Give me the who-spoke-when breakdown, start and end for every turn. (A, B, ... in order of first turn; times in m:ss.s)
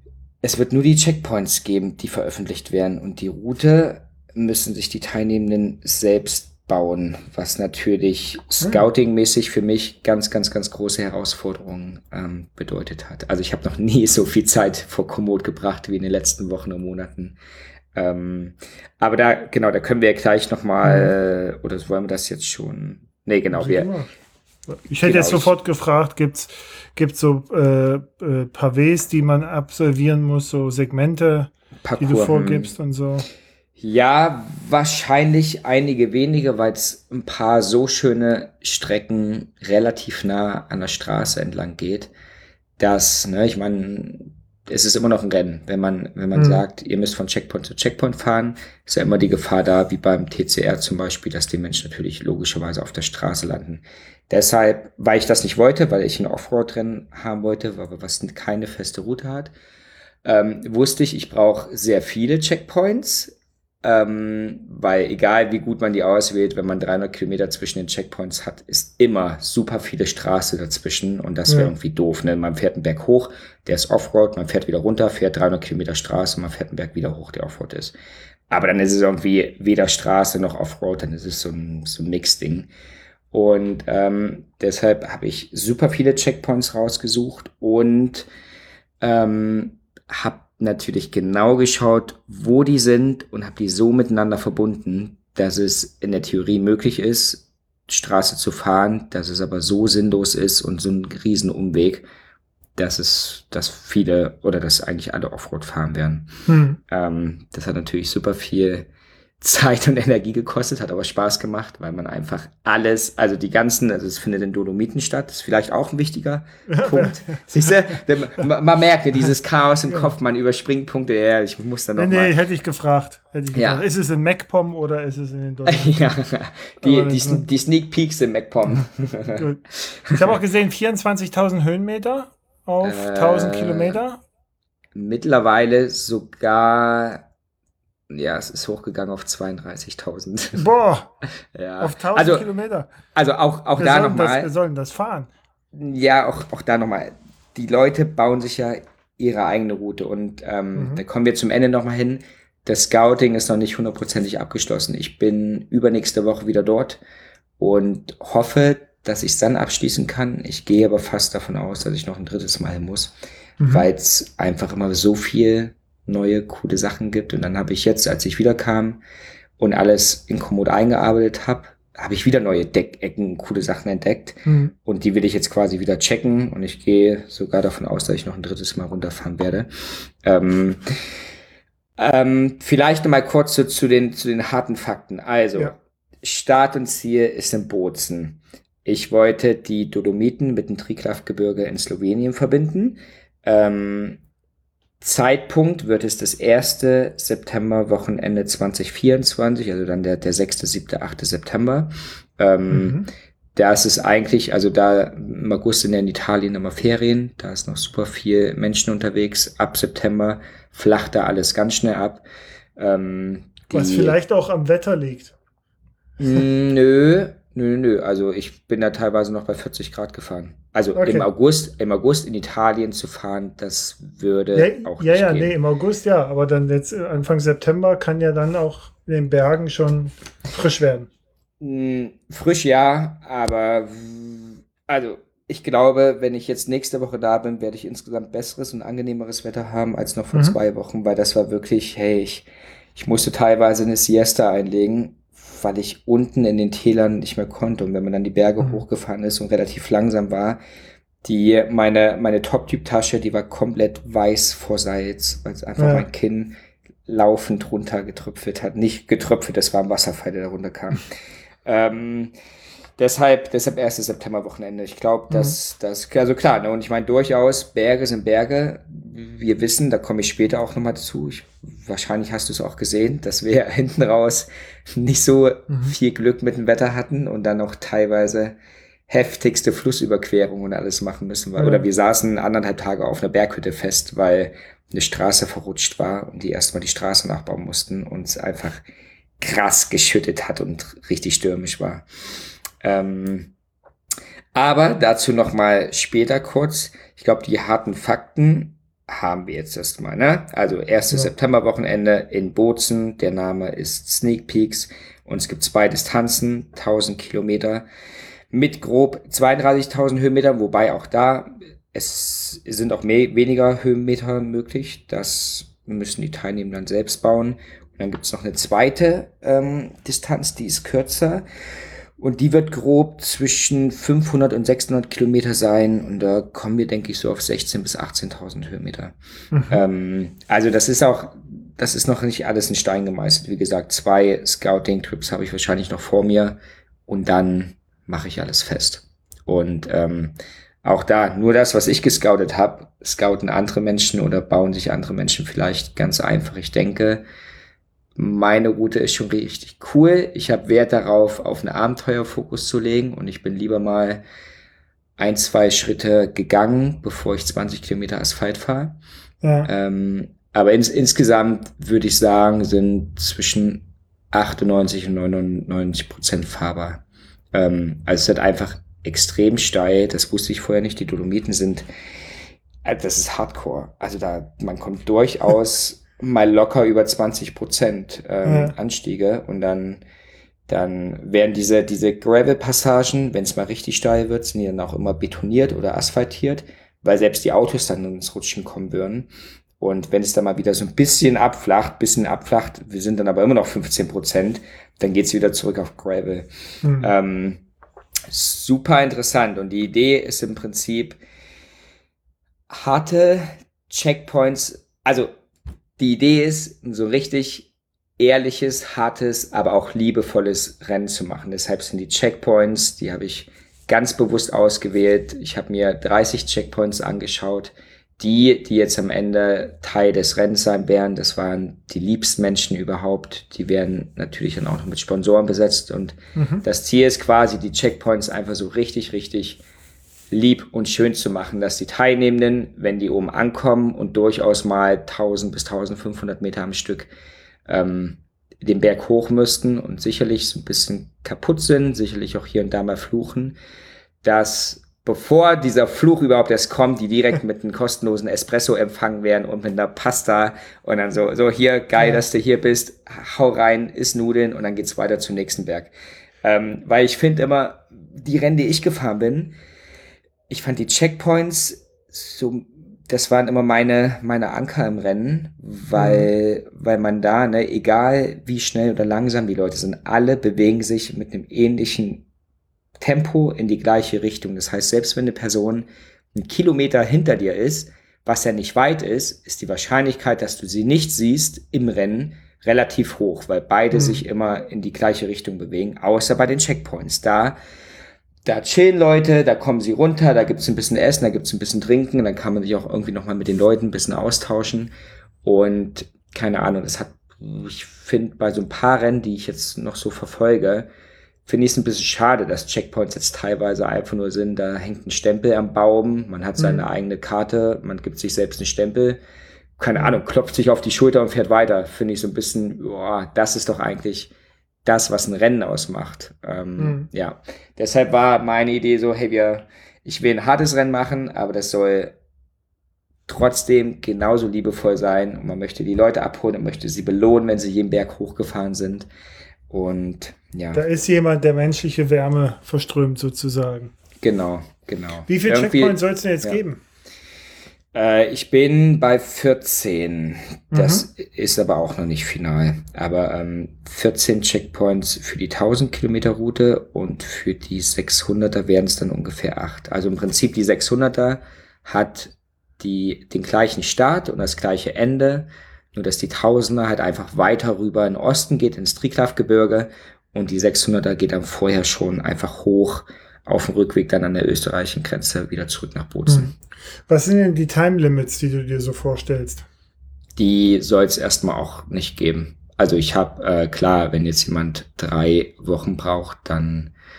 0:00.4-0:17.3 A
0:17.9-0:23.9 A
0:20.8-0:21.1 B
0:23.5-0:24.1 B
0:24.7-0:33.2 B
0:25.0-0:25.5 A
0:31.8-0:32.7 A
0:33.8-0:42.1 A
0:42.8-0:59.5 A
0:46.3-0:46.6 B
1:00.2-1:17.9 A
1:18.5-1:22.7 A
1:23.3-1:28.3 A
1:29.0-1:42.0 A
1:42.8-1:46.3 A
1:46.4-1:46.8 B
1:46.9-1:48.9 A
1:49.4-2:02.3 A
1:56.7-1:57.4 B
2:02.0-2:06.0 B
2:03.5-2:03.8 A
2:05.6-2:10.3 A
2:06.8-2:07.5 B
2:09.3-2:14.2 B
2:12.8-2:14.0 A
2:14.9-2:17.2 A
2:18.1-2:20.7 A
2:20.5-2:21.1 B
2:21.5-2:22.4 A
2:21.8-2:22.9 B
2:23.1-2:24.5 A
2:23.8-2:25.3 B
2:25.7-2:37.0 A
2:30.8-2:31.0 B
2:37.6-2:43.1 A
2:43.6-2:43.8 B
2:43.7-2:49.0 A
2:49.6-2:59.7 A
2:54.4-2:54.7 B
3:00.2-3:00.9 A
3:02.0-3:14.2 A
3:15.0-3:23.0 A
3:22.7-3:23.1 B
3:23.5-3:32.2 A
3:32.8-3:34.2 A
3:33.7-3:35.3 B
3:36.2-3:45.5 A
3:40.9-3:41.3 B
3:44.5-3:51.1 B
3:51.6-4:10.6 A
4:11.2-4:16.5 A
4:15.8-4:16.0 B
4:17.0-4:21.1 A
4:21.6-4:22.3 A
4:23.0-4:38.5 A
4:39.1-4:48.8 A
4:41.6-4:41.9 B
4:49.4-4:52.0 A
4:52.8-4:53.5 A
4:54.5-5:07.8 A
5:08.5-5:21.4 A
5:22.2-5:29.1 A
5:29.5-5:29.8 B
5:29.7-5:47.2 A
5:48.2-5:54.2 A
5:55.2-5:59.0 A
5:59.4-5:59.7 B
5:59.6-6:11.8 A
6:12.8-6:20.0 A
6:18.4-6:18.7 B
6:20.7-6:29.3 A
6:29.8-6:37.6 A
6:36.8-6:37.1 B
6:38.3-6:41.2 A
6:42.7-6:45.3 A
6:46.0-7:09.6 A
7:06.3-7:06.6 B
7:10.3-7:17.1 A
7:17.7-7:23.6 A
7:24.2-7:35.9 A
7:36.4-7:39.5 A
7:40.5-7:52.2 A
7:46.0-7:46.3 B
7:53.0-8:07.6 A
8:03.9-8:04.2 B
8:08.4-8:14.9 A
8:15.4-8:20.9 A
8:21.4-8:29.2 A
8:26.6-8:26.8 B
8:29.8-8:34.3 A
8:34.8-8:42.1 A
8:36.8-8:37.1 B
8:43.3-8:49.1 A
8:49.7-8:50.8 A
8:50.7-8:53.9 B
8:54.2-8:56.6 A
8:55.3-8:56.8 B
8:57.9-9:26.5 A
9:00.7-9:01.0 B
9:26.3-9:26.5 B
9:27.1-9:29.6 B
9:30.4-9:36.9 A